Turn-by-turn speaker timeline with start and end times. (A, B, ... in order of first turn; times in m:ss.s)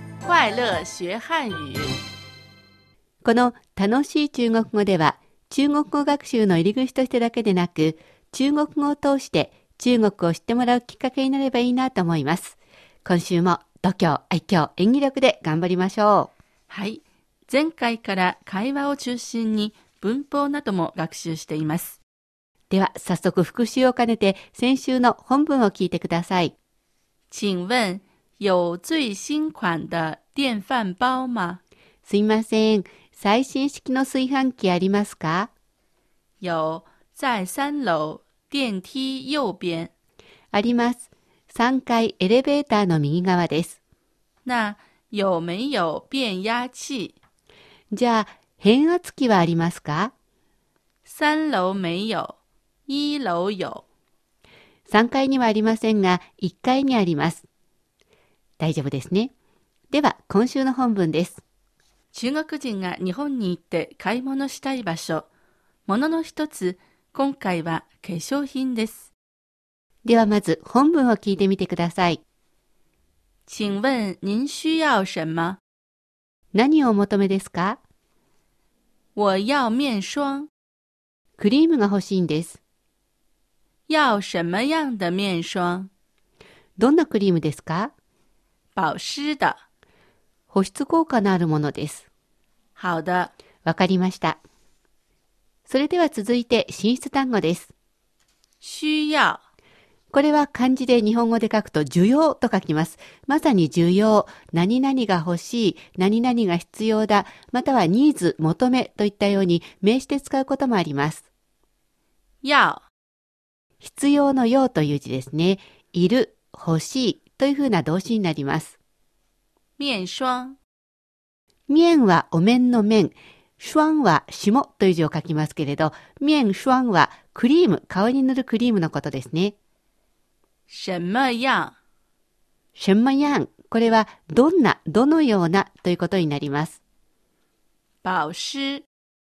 0:00.2-0:02.0 A
0:03.2-0:16.3 B
0:16.7-0:22.0 A
0:22.7-0:26.5 B
0:27.3-0:31.6 A
0:32.0-0:35.5 B
0:36.4-0:39.9 A
0:40.5-0:43.8 B
0:44.4-0:47.2 A
0:47.9-0:50.1 B
0:51.0-0:52.4 A
0:52.9-0:53.8 A
0:54.9-0:57.4 B
0:58.6-0:59.3 B
0:59.9-1:01.4 B
1:02.1-1:05.3 A
1:05.9-1:09.1 A
1:10.0-1:12.2 B
1:13.5-1:15.6 A
1:16.5-1:17.8 B
1:19.2-1:20.5 A
1:21.4-1:22.6 B
1:23.9-1:25.9 A
1:26.8-1:27.9 B
1:28.8-1:29.6 A
1:30.5-1:32.0 B
1:32.8-1:33.3 A
1:33.6-1:34.4 B
1:35.7-1:37.7 B
1:38.6-1:39.4 A
1:40.1-1:51.2 B
1:52.4-1:52.8 A
1:53.8-1:58.8 B
1:59.8-2:00.6 A
2:01.7-2:09.5 B
2:10.7-2:11.8 A
2:12.8-2:16.8 B
2:18.0-2:18.8 A